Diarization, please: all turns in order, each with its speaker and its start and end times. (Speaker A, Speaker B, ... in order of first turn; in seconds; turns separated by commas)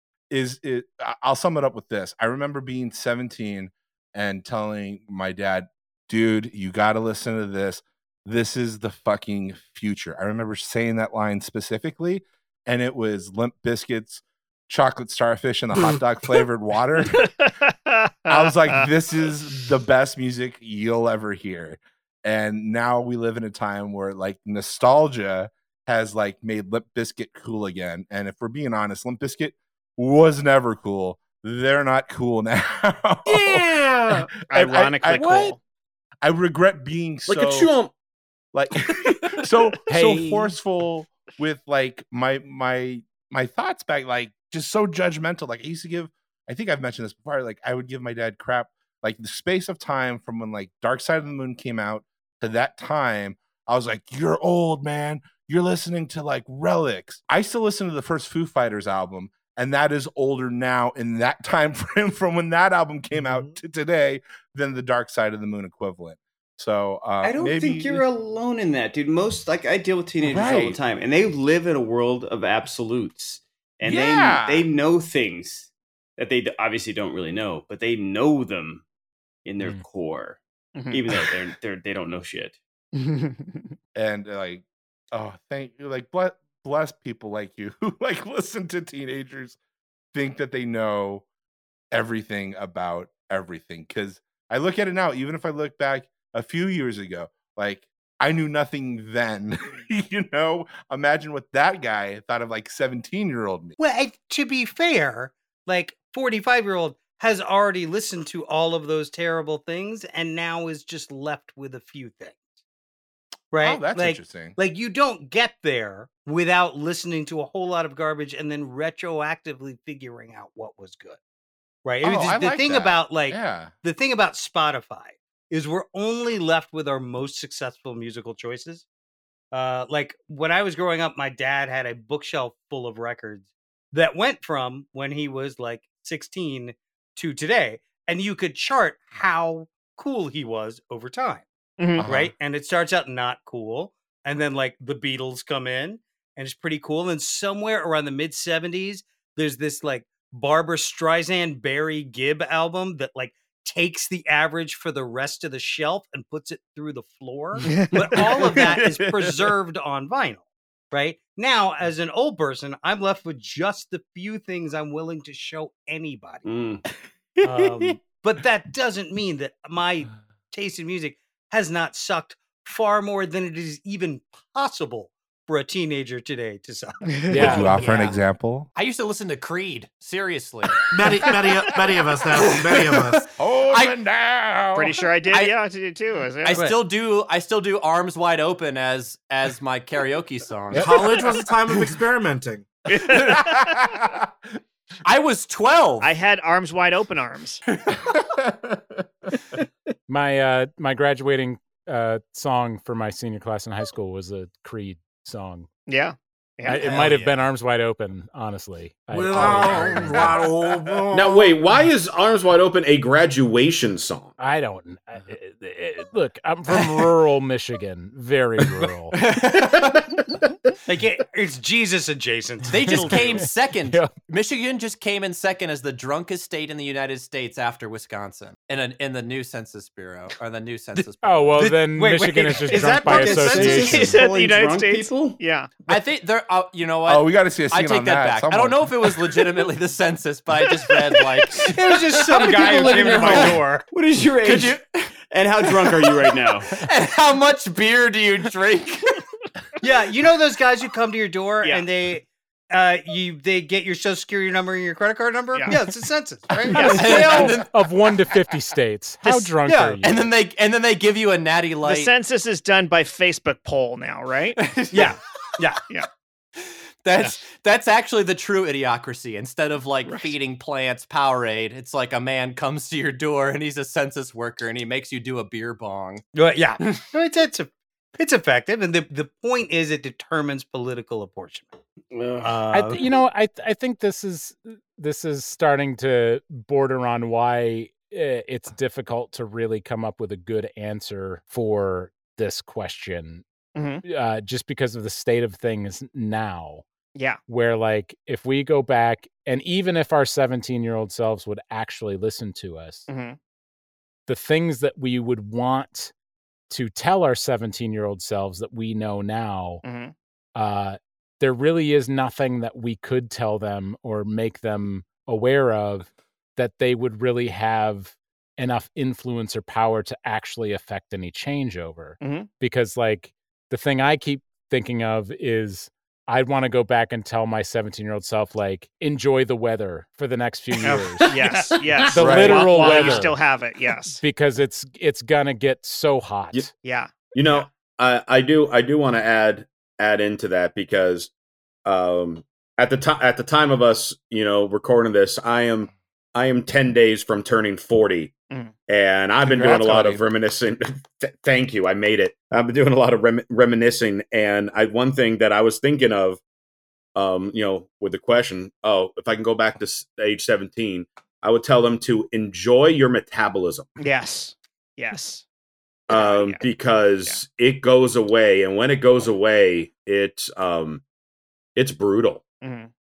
Speaker A: 0.3-17.3, Speaker B: 17.2-18.9, Speaker A: 18.3-35.5, Speaker C: 33.3-34.3, Speaker B: 34.5-35.6, Speaker A: 36.2-37.7, Speaker D: 37.3-37.9, Speaker A: 38.5-68.1, Speaker E: 39.9-40.5, Speaker F: 67.2-78.8, Speaker A: 70.2-70.8, Speaker A: 73.8-74.7, Speaker F: 79.5-82.6, Speaker B: 80.8-81.0, Speaker B: 82.9-83.8, Speaker A: 84.0-89.6, Speaker A: 90.1-91.2, Speaker A: 91.9-103.8, Speaker G: 103.8-112.4, Speaker G: 113.5-121.2, Speaker A: 113.6-114.6, Speaker G: 121.8-128.8, Speaker A: 122.0-123.7, Speaker G: 129.5-141.4, Speaker B: 141.8-142.1, Speaker A: 142.0-142.3, Speaker G: 142.0-166.4, Speaker B: 157.7-158.0, Speaker A: 158.1-159.5, Speaker F: 166.4-166.8, Speaker G: 167.4-177.8, Speaker B: 177.1-177.4, Speaker E: 177.3-177.9, Speaker A: 177.3-178.7, Speaker H: 177.4-178.2, Speaker H: 178.8-180.9, Speaker C: 180.9-183.3, Speaker H: 182.4-183.0, Speaker A: 183.4-185.0, Speaker H: 183.7-184.0, Speaker B: 184.8-186.6, Speaker H: 186.4-191.3, Speaker C: 190.8-192.7, Speaker B: 192.9-193.8, Speaker A: 193.1-194.3, Speaker H: 195.1-196.1, Speaker B: 196.0-197.6, Speaker A: 198.1-198.7, Speaker E: 200.1-205.7, Speaker B: 205.9-207.2, Speaker E: 206.7-210.5, Speaker C: 209.1-211.6, Speaker H: 209.7-210.0, Speaker D: 211.1-214.3, Speaker E: 214.4-219.2, Speaker H: 219.2-219.9, Speaker G: 220.9-223.4, Speaker H: 222.7-231.7, Speaker E: 222.9-224.1, Speaker E: 231.2-234.2, Speaker G: 231.6-234.0, Speaker F: 232.7-235.4, Speaker B: 233.7-235.7, Speaker H: 235.9-241.8, Speaker A: 237.1-239.1, Speaker G: 241.6-243.8, Speaker F: 242.3-246.8, Speaker H: 242.3-243.6, Speaker H: 244.4-244.9, Speaker H: 245.8-246.2, Speaker H: 246.7-249.2, Speaker G: 249.8-257.5, Speaker A: 256.5-256.8, Speaker B: 256.7-257.5, Speaker H: 256.7-257.7, Speaker E: 256.8-260.3, Speaker G: 259.6-260.0, Speaker H: 260.0-262.1, Speaker B: 261.8-264.6, Speaker H: 264.6-265.2, Speaker G: 264.9-265.8, Speaker H: 266.6-276.2, Speaker G: 276.4-281.7, Speaker F: 282.1-282.6, Speaker G: 282.4-283.1, Speaker E: 282.7-293.4, Speaker B: 293.8-294.0, Speaker E: 294.0-296.8, Speaker B: 297.1-297.4, Speaker E: 297.5-303.1, Speaker B: 303.1-303.4, Speaker E: 304.3-306.1, Speaker E: 306.7-309.8, Speaker B: 309.8-310.1, Speaker E: 310.6-333.4, Speaker B: 322.2-322.5, Speaker B: 331.2-334.2, Speaker A: 332.1-332.7, Speaker E: 334.2-336.7, Speaker B: 336.8-337.6, Speaker D: 337.3-341.3, Speaker D: 341.9-348.3, Speaker D: 348.9-356.4, Speaker A: 349.4-350.3, Speaker D: 357.1-363.9, Speaker B: 364.0-365.4, Speaker D: 366.1-371.0, Speaker B: 366.1-366.6, Speaker D: 371.8-372.4, Speaker B: 372.6-372.9